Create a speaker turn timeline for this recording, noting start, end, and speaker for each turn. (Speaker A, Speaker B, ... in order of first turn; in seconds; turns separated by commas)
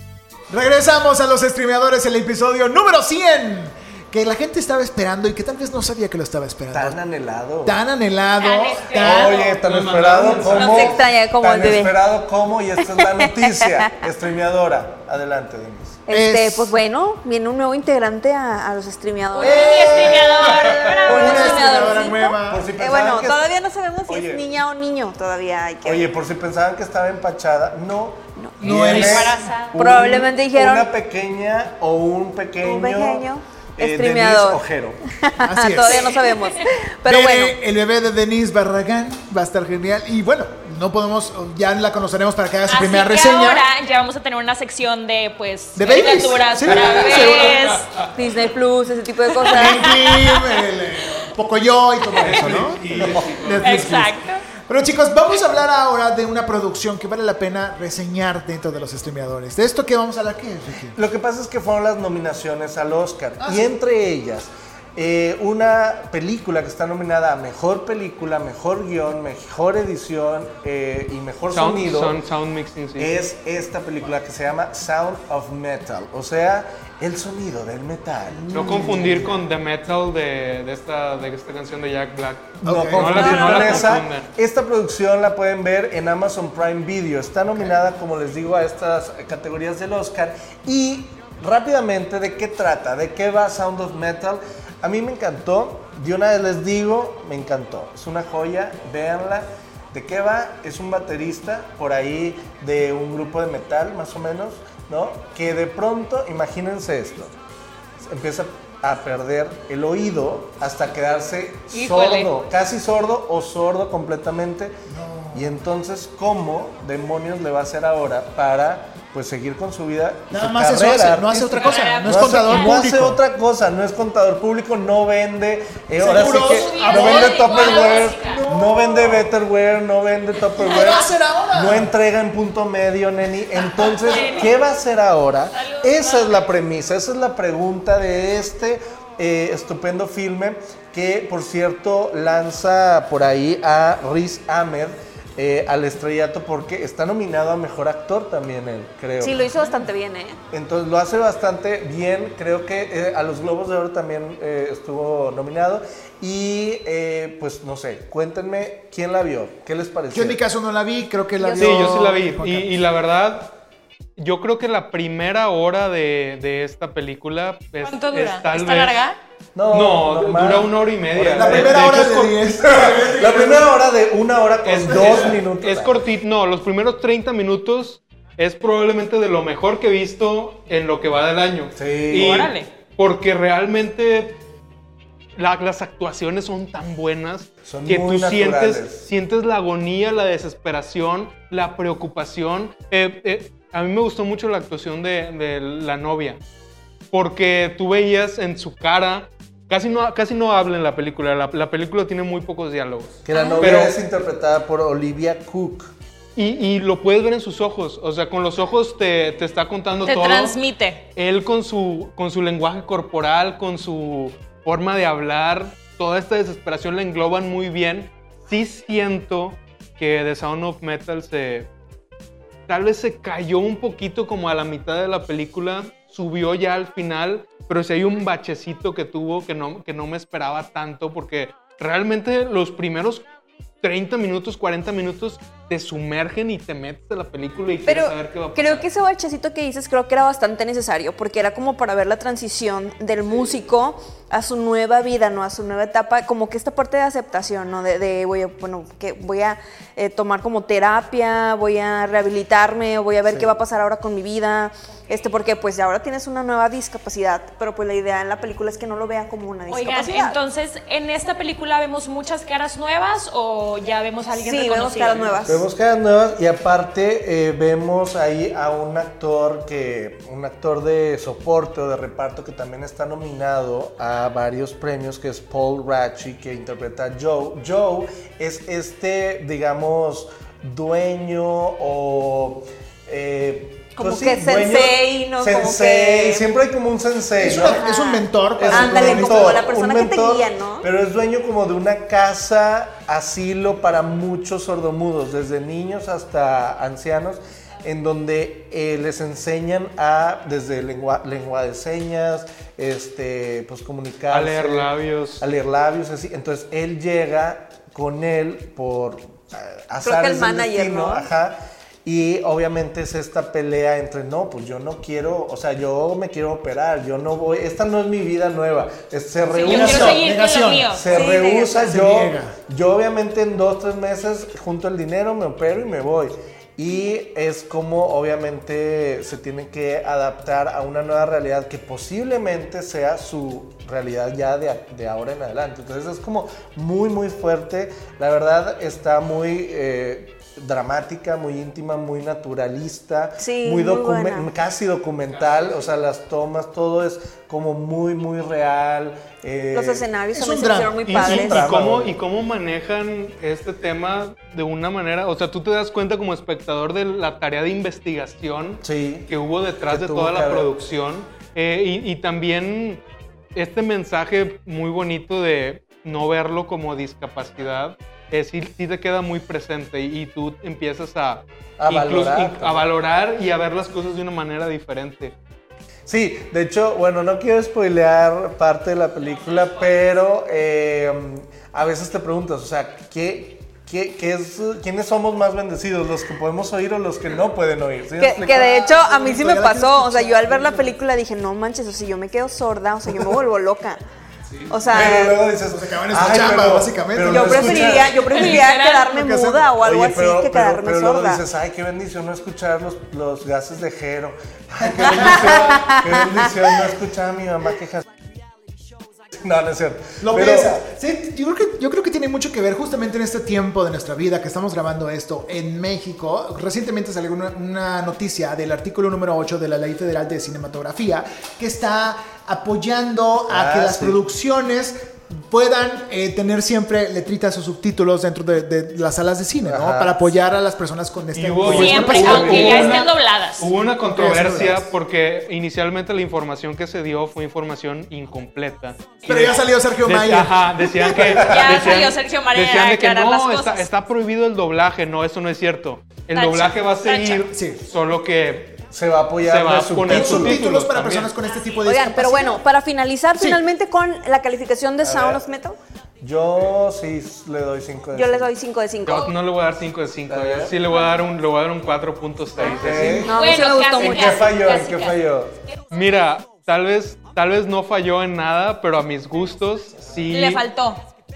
Speaker A: 0.5-7.0, Speaker B: 6.7-7.8, Speaker A: 7.6-9.5, Speaker C: 8.4-9.6, Speaker B: 8.9-16.0, Speaker D: 9.6-11.0, Speaker C: 10.5-10.9, Speaker E: 10.6-12.0, Speaker E: 12.9-14.0, Speaker E: 16.1-20.1, Speaker A: 16.1-16.7, Speaker C: 19.3-22.1, Speaker B: 19.4-21.7, Speaker A: 20.1-22.7, Speaker E: 21.1-26.1, Speaker B: 22.4-23.5, Speaker B: 24.1-24.5, Speaker B: 25.8-33.3, Speaker E: 28.4-29.0, Speaker A: 28.6-29.5, Speaker C: 28.9-29.8, Speaker E: 29.7-30.9, Speaker E: 32.6-34.6, Speaker B: 33.8-35.0, Speaker E: 35.2-37.6, Speaker A: 35.4-36.1, Speaker C: 35.9-36.7, Speaker A: 37.0-43.6, Speaker C: 42.7-47.9, Speaker A: 45.8-47.6, Speaker E: 48.1-50.0, Speaker C: 49.4-50.4, Speaker A: 49.5-54.2, Speaker D: 52.2-53.8, Speaker B: 52.2-53.3, Speaker C: 53.6-54.4, Speaker A: 54.7-61.0, Speaker B: 60.9-72.2, Speaker A: 63.4-63.7, Speaker D: 71.5-73.1, Speaker B: 73.0-79.4, Speaker A: 78.4-79.2, Speaker D: 78.5-84.3, Speaker A: 82.6-83.5, Speaker B: 82.6-107.3, Speaker E: 83.4-83.8, Speaker B: 108.0-114.8, Speaker C: 111.7-112.3, Speaker A: 114.9-115.6, Speaker B: 115.3-149.7, Speaker A: 120.3-123.2, Speaker C: 121.6-122.7, Speaker A: 126.0-129.3, Speaker C: 126.5-128.4, Speaker A: 130.6-131.9, Speaker C: 133.7-134.5, Speaker C: 135.5-136.5, Speaker E: 149.2-150.4, Speaker B: 150.5-160.4, Speaker A: 160.1-162.8, Speaker D: 161.6-163.5, Speaker D: 164.2-168.9, Speaker C: 167.8-169.2, Speaker B: 169.6-176.0, Speaker D: 169.7-172.4, Speaker A: 171.2-173.7, Speaker D: 174.6-184.4, Speaker B: 181.8-182.5, Speaker C: 182.1-182.7, Speaker D: 185.4-196.4, Speaker B: 187.7-189.0, Speaker D: 197.1-203.9, Speaker B: 203.2-205.9, Speaker D: 206.4-210.6, Speaker C: 210.1-211.0, Speaker D: 211.2-221.7, Speaker D: 222.7-233.2, Speaker D: 233.8-238.9, Speaker E: 237.8-260.4, Speaker B: 253.2-253.6, Speaker C: 259.7-265.6, Speaker E: 264.4-265.6, Speaker B: 265.5-287.8, Speaker E: 284.0-286.5, Speaker A: 287.4-289.6, Speaker E: 287.4-290.9, Speaker B: 288.6-320.2, Speaker D: 304.3-305.4, Speaker E: 310.0-311.3, Speaker C: 319.5-321.2, Speaker A: 319.6-321.0, Speaker B: 321.0-350.1, Speaker E: 321.0-322.0, Speaker A: 321.8-322.6, Speaker E: 343.4-344.5, Speaker E: 349.7-351.7, Speaker A: 350.3-351.1, Speaker D: 351.1-363.0, Speaker B: 351.1-352.2, Speaker B: 358.8-359.3, Speaker B: 359.9-360.8, Speaker D: 363.6-375.3, Speaker B: 371.8-372.9, Speaker B: 376.1-388.7, Speaker E: 388.2-394.0, Speaker A: 388.4-390.9, Speaker E: 394.7-395.4, Speaker B: 394.8-398.4, Speaker A: 394.9-399.7, Speaker E: 397.2-401.4, Speaker C: 398.3-399.2, Speaker B: 399.8-408.0, Speaker A: 404.8-405.8, Speaker E: 405.2-406.7, Speaker B: 409.4-410.8, Speaker A: 410.2-433.0, Speaker B: 423.5-424.2, Speaker B: 429.6-430.2, Speaker D: 431.4-448.8, Speaker B: 431.6-433.1, Speaker C: 431.6-433.7, Speaker A: 434.0-434.9, Speaker A: 439.2-441.2, Speaker B: 441.1-441.8, Speaker C: 441.3-443.9, Speaker C: 446.4-447.4, Speaker A: 447.2-447.8, Speaker B: 448.9-450.6, Speaker D: 449.4-451.3, Speaker A: 450.1-452.6, Speaker E: 451.8-455.8, Speaker A: 453.4-453.6, Speaker B: 455.0-455.4, Speaker B: 456.2-458.5, Speaker E: 458.1-459.3, Speaker D: 459.0-463.3, Speaker B: 460.3-460.7, Speaker B: 462.6-463.4, Speaker E: 463.2-464.6, Speaker C: 463.3-465.2, Speaker B: 464.0-465.5, Speaker D: 465.9-470.7, Speaker B: 470.0-470.3, Speaker C: 470.3-471.0